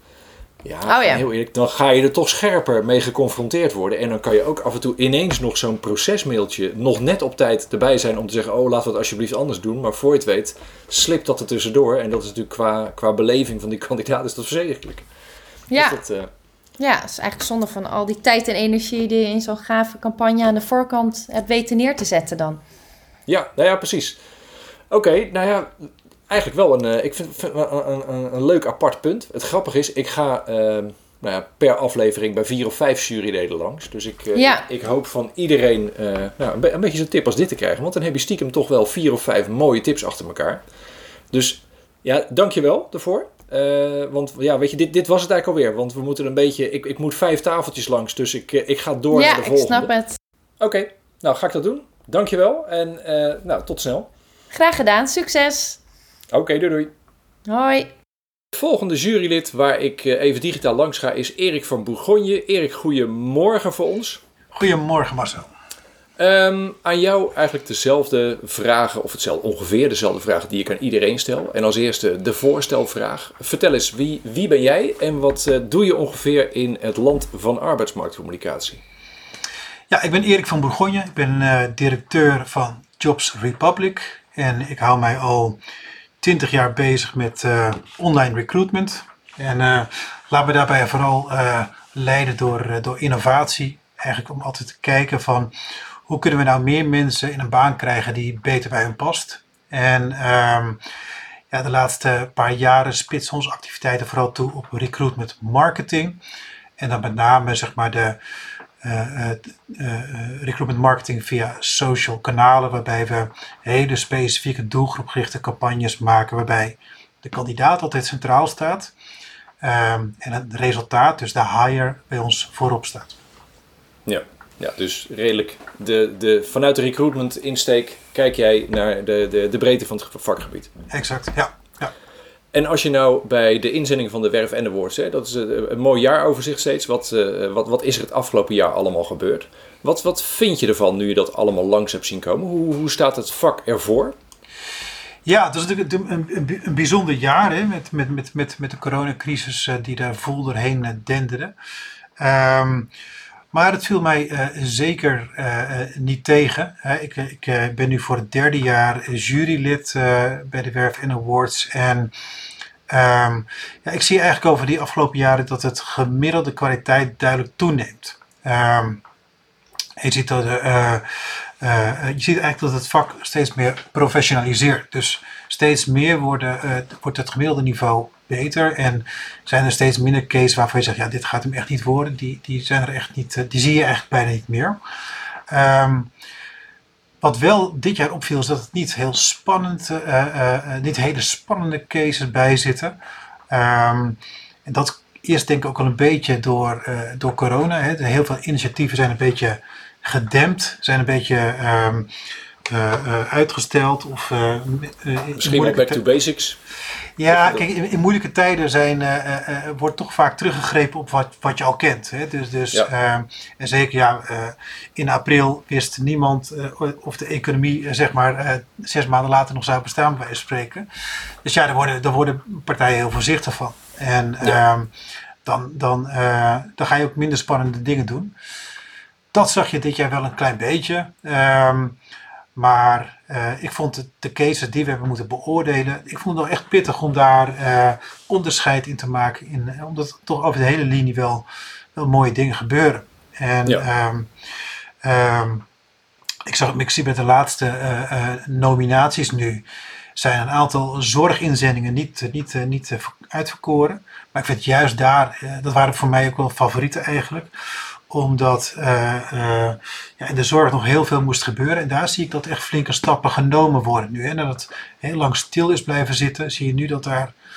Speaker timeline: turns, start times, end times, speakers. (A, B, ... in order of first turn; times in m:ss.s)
0:00.6-0:15.1 A
0:00.9-0:01.2 B
0:15.7-0:16.0 B
0:15.8-0:16.3 A
0:16.8-0:22.6 B
0:23.3-0:24.2 A
0:24.9-0:40.6 A
0:34.4-0:34.6 B
0:41.3-0:49.9 A
0:49.1-0:50.2 B
0:50.6-0:54.1 A
0:54.5-0:55.8 B
0:56.3-0:56.9 A
0:57.5-0:57.9 B
0:58.5-1:04.2 A
1:04.5-1:05.5 C
1:06.2-1:18.8 A
1:19.9-1:25.6 C
1:26.2-1:35.5 C
1:36.0-1:40.8 C
1:41.5-1:46.2 C
1:46.8-1:48.2 C
1:48.8-1:58.9 C
1:59.6-2:03.2 C
2:04.0-2:10.7 A
2:10.9-2:11.9 C
2:12.5-2:24.1 A
2:25.2-2:31.5 C
2:32.2-2:32.9 C
2:33.5-2:42.1 C
2:42.9-2:49.0 C
2:50.0-3:04.8 C
3:05.5-3:06.1 C
3:07.2-3:13.0 C
3:13.5-3:22.1 C
3:22.7-3:26.0 C
3:25.4-3:26.6 A
3:27.2-3:40.8 C
3:27.3-3:27.6 A
3:41.4-3:44.9 C
3:45.4-3:48.3 C
3:49.3-3:52.0 C
3:52.6-4:04.3 C
4:05.0-4:05.6 C
4:06.5-4:09.6 C
4:10.2-4:17.5 C
4:18.1-4:27.3 C